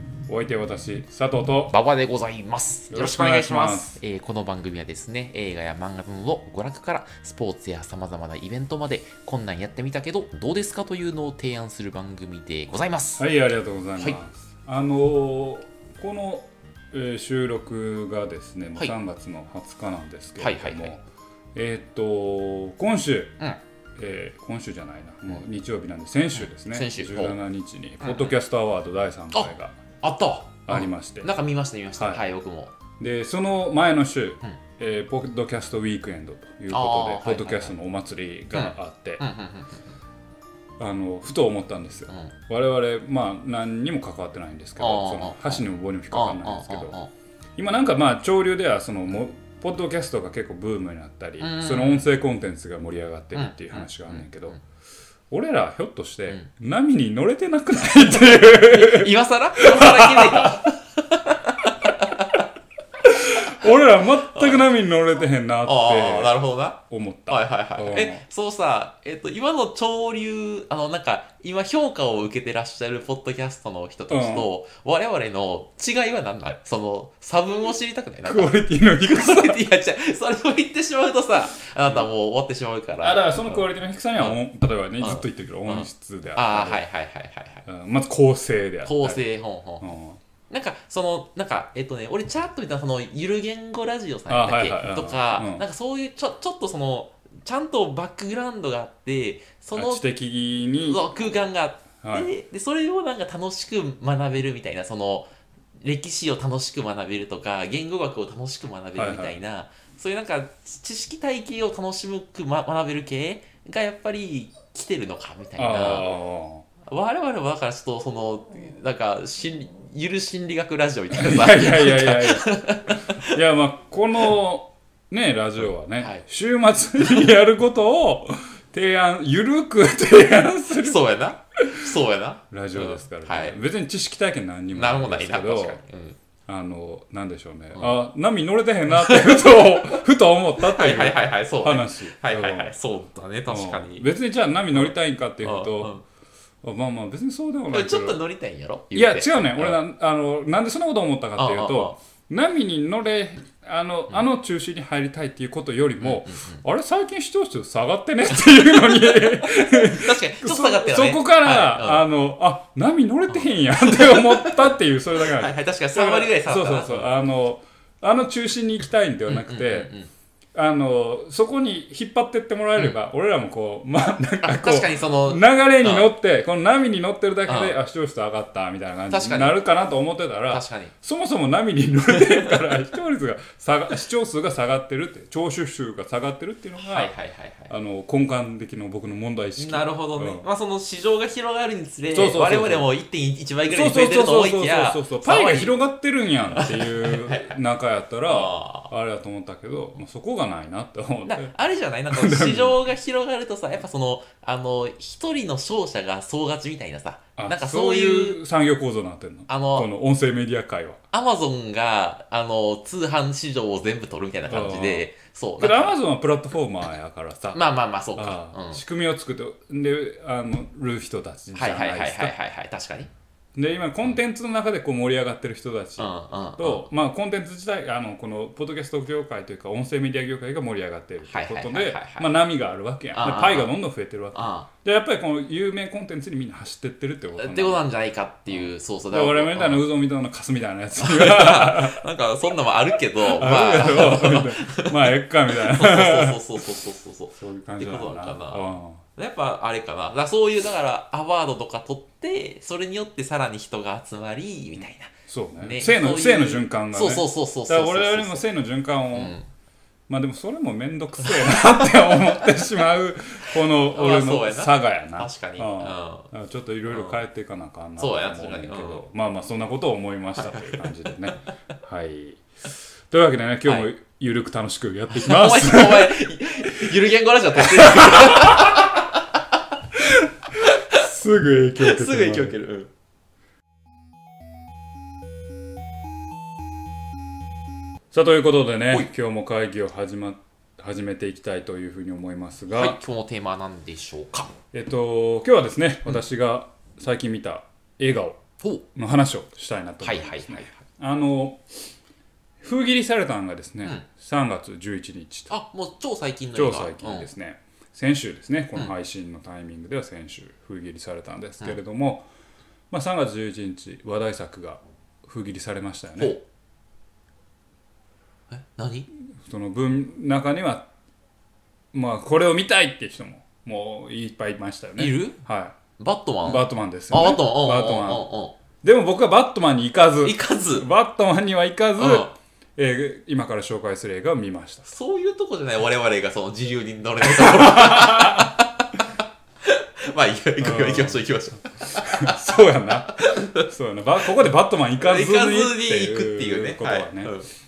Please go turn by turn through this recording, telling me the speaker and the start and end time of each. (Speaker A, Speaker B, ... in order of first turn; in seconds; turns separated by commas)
Speaker A: 0.3-1.7, Speaker B: 1.7-13.2, Speaker A: 2.9-4.0, Speaker A: 13.2-21.0, Speaker B: 20.4-20.9, Speaker A: 21.6-23.4, Speaker A: 24.0-29.8, Speaker B: 26.3-27.4, Speaker B: 28.0-28.3, Speaker B: 29.3-32.7, Speaker A: 30.7-31.3, Speaker A: 31.9-32.2, Speaker A: 33.0-39.2, Speaker B: 36.7-37.7, Speaker B: 38.5-39.9, Speaker A: 40.8-47.0, Speaker B: 42.1-42.3, Speaker B: 44.8-47.1, Speaker A: 47.6-54.6, Speaker B: 51.4-52.1, Speaker B: 53.3-54.5, Speaker A: 55.3-60.7, Speaker B: 57.9-62.4, Speaker A: 63.0-68.2, Speaker B: 63.6-64.7, Speaker B: 65.6-83.6, Speaker A: 74.1-74.5, Speaker A: 78.2-79.6, Speaker A: 83.0-86.8, Speaker B: 85.0-87.6, Speaker A: 87.7-89.2, Speaker B: 88.8-89.8, Speaker A: 89.8-90.2, Speaker B: 90.5-100.0, Speaker A: 94.3-95.6, Speaker A: 99.7-101.0, Speaker B: 100.8-116.1, Speaker A: 102.0-102.3, Speaker A: 109.0-109.4, Speaker A: 115.6-116.6, Speaker B: 116.8-123.4, Speaker A: 121.1-131.9, Speaker B: 126.0-126.2, Speaker B: 130.8-133.6, Speaker A: 132.5-135.8, Speaker B: 134.7-136.2, Speaker A: 136.5-142.7, Speaker B: 138.9-140.0, Speaker B: 140.6-144.1, Speaker A: 143.5-145.9, Speaker B: 144.7-146.0, Speaker A: 146.6-148.2, Speaker B: 147.7-149.8, Speaker A: 148.9-169.9, Speaker B: 151.4-152.0, Speaker B: 156.0-156.6, Speaker B: 158.3-162.0, Speaker B: 163.3-167.1, Speaker B: 169.3-170.1, Speaker A: 170.6-187.1, Speaker B: 174.4-176.1, Speaker B: 177.4-177.8, Speaker B: 179.1-179.6, Speaker B: 180.5-180.9, Speaker B: 182.1-182.8, Speaker B: 186.8-187.7, Speaker A: 187.7-190.4, Speaker B: 189.6-195.7, Speaker A: 192.1-192.9, Speaker A: 193.7-201.5, Speaker B: 196.6-197.6, Speaker B: 198.2-198.9, Speaker B: 201.2-208.4, Speaker A: 202.1-202.8, Speaker A: 207.4-211.0, Speaker B: 209.5-209.9, Speaker B: 211.1-215.9, Speaker A: 214.5-215.1, Speaker A: 215.6-217.6, Speaker B: 217.5-218.8, Speaker A: 218.1-222.3, Speaker B: 221.5-223.1, Speaker A: 223.6-237.9, Speaker B: 226.0-226.9, Speaker B: 231.2-232.3, Speaker B: 233.1-233.7, Speaker B: 234.3-234.7, Speaker B: 237.4-239.8, Speaker A: 238.5-242.0, Speaker B: 241.0-258.4, Speaker A: 243.2-246.6, Speaker A: 247.3-249.0, Speaker A: 254.8-259.4, Speaker B: 259.1-259.4, Speaker A: 260.1-272.4, Speaker B: 261.2-262.5, Speaker B: 263.6-266.3, Speaker B: 266.9-267.2, Speaker B: 268.0-269.0, Speaker B: 270.4-270.8, Speaker A: 273.1-276.2, Speaker B: 275.1-279.6, Speaker A: 277.6-279.0, Speaker A: 280.0-282.6, Speaker B: 280.6-281.1, Speaker B: 281.8-282.9, Speaker A: 288.1-293.0, Speaker B: 292.7-294.5, Speaker A: 294.7-298.4, Speaker B: 298.6-298.8, Speaker A: 298.9-301.6, Speaker B: 300.0-300.8, Speaker A: 302.6-305.5, Speaker B: 305.5-307.3, Speaker A: 306.5-312.3, Speaker A: 312.9-316.4, Speaker B: 316.2-316.4, Speaker B: 318.5-319.1, Speaker A: 319.4-320.9, Speaker A: 321.9-325.8, Speaker B: 325.0-325.4, Speaker B: 326.0-328.6, Speaker A: 326.4-328.3, Speaker A: 328.8-334.9, Speaker B: 330.2-330.9, Speaker B: 332.0-332.3, Speaker B: 334.9-339.1, Speaker A: 337.2-338.6, Speaker B: 339.6-342.6, Speaker A: 340.6-347.3, Speaker B: 343.2-343.6, Speaker B: 345.0-347.5